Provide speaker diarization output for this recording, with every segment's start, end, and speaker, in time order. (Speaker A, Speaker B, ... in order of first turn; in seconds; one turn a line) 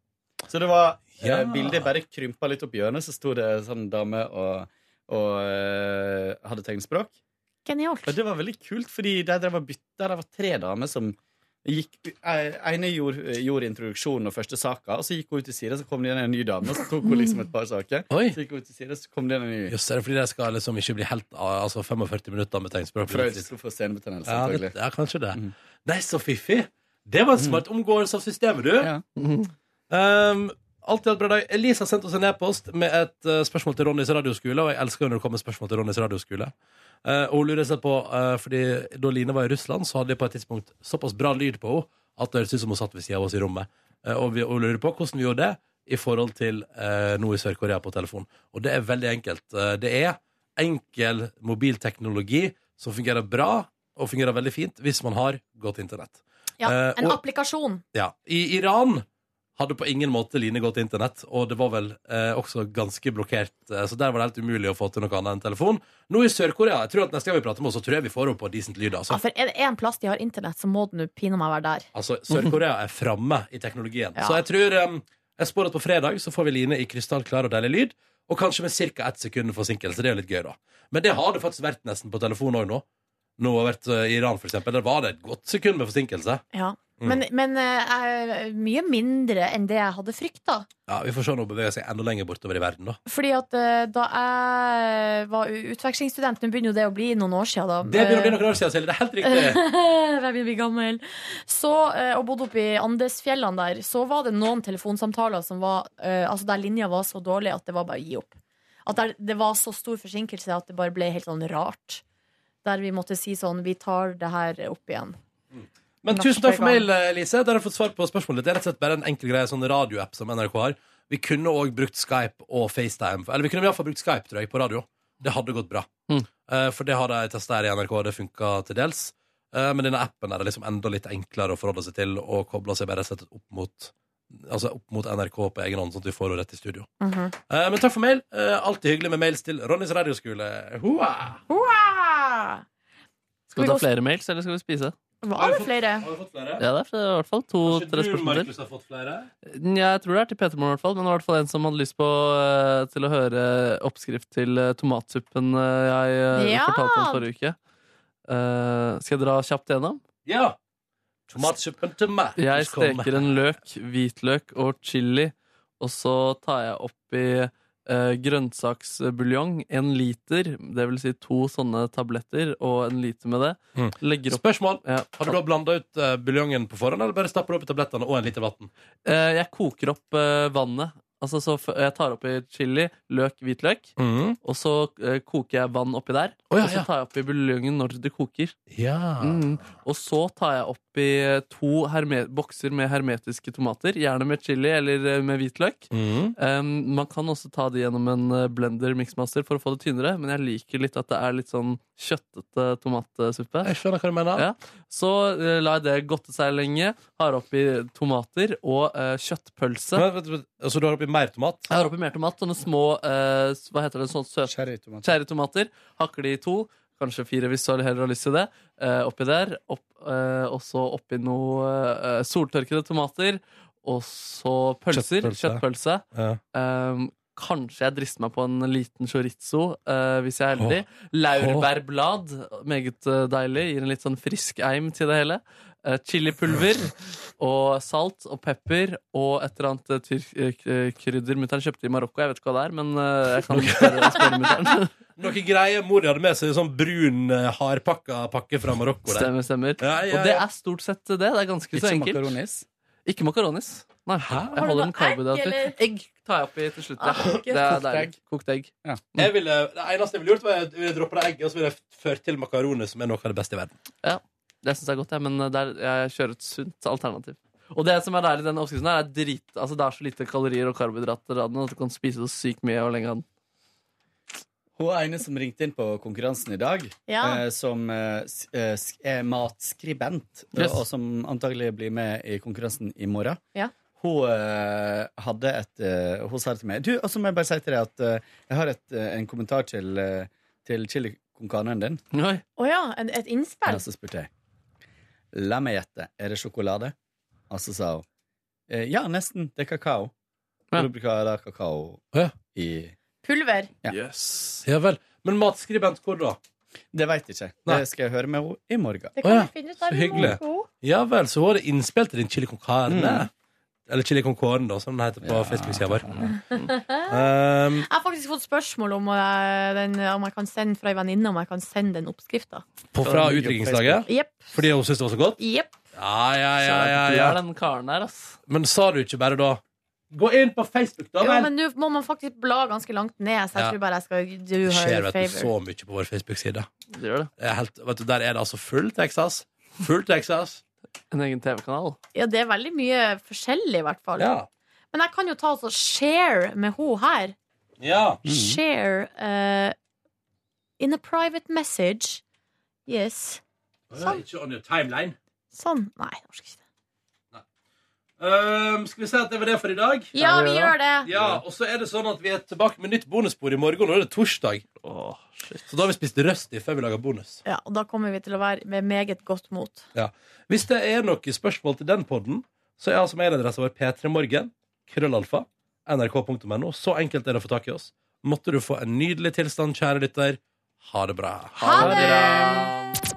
Speaker A: 0.5-7.2
Speaker B: 1.2-1.9
Speaker C: 7.7-8.2
Speaker A: 8.1-19.8
Speaker B: 18.1-18.4
Speaker B: 19.7-23.5
Speaker A: 23.1-24.8
Speaker B: 24.3-28.9
Speaker A: 27.4-27.6
Speaker D: 29.2-29.5
Speaker B: 29.9-36.5
Speaker B: 37.0-57.2
Speaker C: 56.6-57.8
Speaker B: 57.9-59.0
Speaker B: 59.6-69.2
Speaker C: 69.1-71.9
Speaker B: 71.9-82.8
Speaker C: 74.2-74.4
Speaker B: 83.4-86.4
Speaker C: 86.5-90.7
Speaker B: 90.9-93.0
Speaker C: 93.1-98.4
Speaker B: 97.9-99.6
Speaker C: 99.2-112.0
Speaker C: 112.6-115.2
Speaker B: 115.5-125.9
Speaker C: 116.1-116.9
Speaker B: 126.5-136.9
Speaker C: 137.0-137.3
Speaker B: 137.5-141.4
Speaker C: 141.5-142.6
Speaker C: 143.5-143.9
Speaker D: 143.6-144.9
Speaker C: 145.2-146.1
Speaker B: 145.3-146.6
Speaker D: 146.6-148.5
Speaker B: 147.6-149.3
Speaker D: 149.4-157.6
Speaker C: 156.3-157.2
Speaker D: 158.3-160.0
Speaker B: 160.2-160.6
Speaker B: 161.3-163.3
Speaker D: 162.4-175.4
Speaker B: 173.8-178.7
Speaker D: 179.1-183.9
Speaker B: 184.0-184.4
Speaker D: 184.4-188.6
Speaker B: 186.5-186.9
Speaker B: 188.7-189.5
Speaker D: 189.2-203.7
Speaker B: 195.9-196.3
Speaker B: 203.6-204.5
Speaker D: 204.4-210.1
Speaker B: 209.9-211.7
Speaker D: 211.7-244.9
Speaker A: 214.5-215.1
Speaker B: 224.9-225.6
Speaker B: 226.1-226.4
Speaker B: 231.3-231.7
Speaker B: 243.5-250.5
Speaker D: 249.1-252.3
Speaker A: 251.7-252.7
Speaker D: 253.1-258.7
Speaker B: 254.2-254.6
Speaker C: 254.6-255.8
Speaker C: 257.0-257.7
Speaker A: 257.7-258.1
Speaker B: 259.1-263.7
Speaker D: 264.0-273.2
Speaker A: 274.8-283.4
Speaker C: 277.1-277.4
Speaker A: 284.0-292.0
Speaker D: 292.1-292.4
Speaker C: 292.6-293.8
Speaker A: 293.7-294.3
Speaker A: 295.3-296.9
Speaker A: 297.5-298.1
Speaker A: 298.7-300.1
Speaker A: 300.7-302.9
Speaker C: 303.2-303.7
Speaker D: 303.9-304.6
Speaker B: 304.6-306.4
Speaker A: 306.9-309.2
Speaker C: 309.2-310.7
Speaker B: 309.2-313.3
Speaker A: 312.9-313.3
Speaker B: 313.9-316.3
Speaker A: 315.2-316.3
Speaker C: 316.5-317.1
Speaker B: 317.1-317.9
Speaker C: 317.9-322.6
Speaker B: 322.9-325.4
Speaker D: 323.0-323.6
Speaker A: 323.1-324.0
Speaker C: 324.1-324.6
Speaker C: 325.4-325.7
Speaker B: 325.9-327.4
Speaker D: 326.6-328.4
Speaker B: 328.5-331.5
Speaker C: 331.2-335.5
Speaker B: 334.6-336.7
Speaker D: 336.9-337.3
Speaker B: 337.4-340.6
Speaker D: 341.1-342.0
Speaker C: 342.1-344.3
Speaker B: 344.2-344.5
Speaker C: 344.9-347.4
Speaker B: 347.8-348.2
Speaker A: 348.2-348.6
Speaker C: 348.2-349.8
Speaker C: 350.8-352.2
Speaker C: 352.9-353.4
Speaker B: 353.9-355.2
Speaker C: 354.0-354.2
Speaker C: 355.5-356.6
Speaker B: 358.2-360.1
Speaker C: 360.1-361.1
Speaker D: 360.2-360.8
Speaker B: 361.1-364.6
Speaker D: 364.8-365.7
Speaker B: 365.7-367.4
Speaker C: 367.4-369.9
Speaker B: 369.9-382.1
Speaker C: 381.6-382.7
Speaker D: 381.6-382.8